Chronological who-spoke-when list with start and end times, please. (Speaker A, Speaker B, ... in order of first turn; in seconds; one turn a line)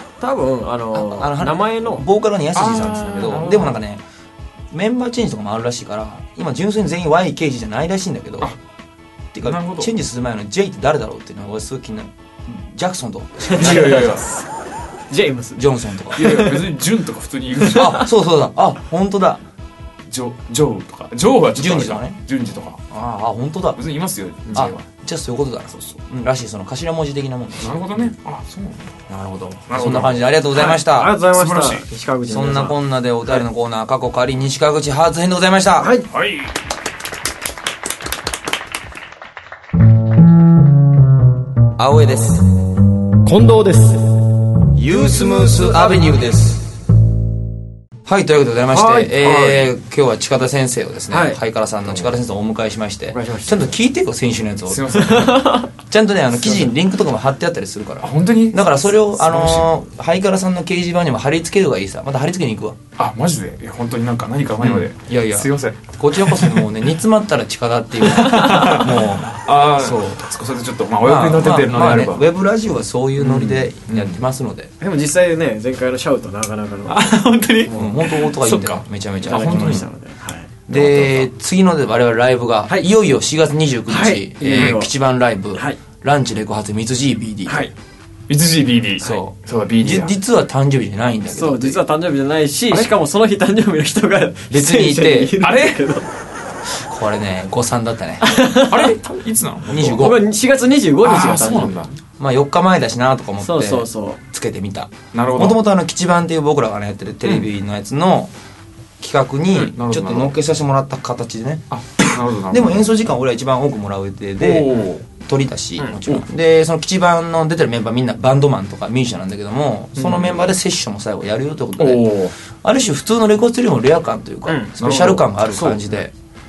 Speaker A: 0.2-2.0
Speaker B: 0.9-4.0
Speaker C: 2.5-3.8
Speaker B: 4.7-8.5
Speaker B: 9.3-14.2
Speaker C: 9.4-9.9
Speaker A: 13.4-14.3
Speaker C: 13.6-14.3
Speaker A: 15.1-16.7
Speaker B: 15.6-16.3
Speaker C: 16.2-18.1
Speaker A: 17.6-18.0
Speaker B: 17.7-19.4
Speaker C: 20.1-22.8
Speaker B: 21.6-22.2
Speaker B: 22.9-23.8
Speaker C: 23.8-24.9
Speaker B: 24.5-28.1
Speaker C: 25.7-26.0
Speaker C: 27.6-29.0
Speaker B: 29.1-31.2
Speaker C: 29.7-30.3
Speaker A: 30.5-32.8
Speaker C: 31.3-31.9
Speaker B: 32.2-36.0
Speaker A: 35.8-36.1
Speaker C: 36.1-36.5
Speaker B: 41.8-42.5
Speaker A: 43.2-44.0
Speaker B: 44.8-46.7
Speaker B: 48.0-54.9
Speaker A: 48.8-49.6
Speaker A: 51.1-52.1
Speaker A: 53.1-53.7
Speaker C: 54.7-55.6
Speaker A: 55.0-55.7
Speaker B: 55.8-62.8
Speaker C: 58.0-59.7
Speaker C: 63.0-66.7
Speaker B: 64.6-70.3
Speaker C: 68.0-72.2
Speaker B: 71.0-74.7
Speaker A: 73.2-73.7
Speaker C: 73.9-74.2
Speaker A: 74.8-77.9
Speaker C: 76.9-79.9
Speaker B: 77.7-79.9
Speaker A: 79.3-80.5
Speaker B: 80.7-87.7
Speaker C: 80.7-81.3
Speaker A: 83.9-84.9
Speaker C: 84.5-84.8
Speaker C: 87.5-87.7
Speaker C: 88.3-90.2
Speaker B: 89.0-91.8
Speaker A: 91.3-96.1
Speaker B: 94.5-95.4
Speaker C: 95.4-95.8
Speaker B: 96.8-98.4
Speaker A: 98.2-98.9
Speaker C: 98.6-100.1
Speaker B: 99.7-100.2
Speaker A: 99.9-101.8
Speaker C: 101.0-102.0
Speaker B: 102.2-108.3
Speaker A: 103.4-104.2
Speaker C: 105.1-105.6
Speaker B: 109.0-111.7
Speaker C: 109.5-110.3
Speaker C: 111.7-112.9
Speaker B: 112.5-126.1
Speaker C: 114.4-115.1
Speaker C: 120.0-120.5
Speaker C: 121.8-122.3
Speaker A: 124.5-124.8
Speaker C: 124.8-125.4
Speaker A: 125.5-126.0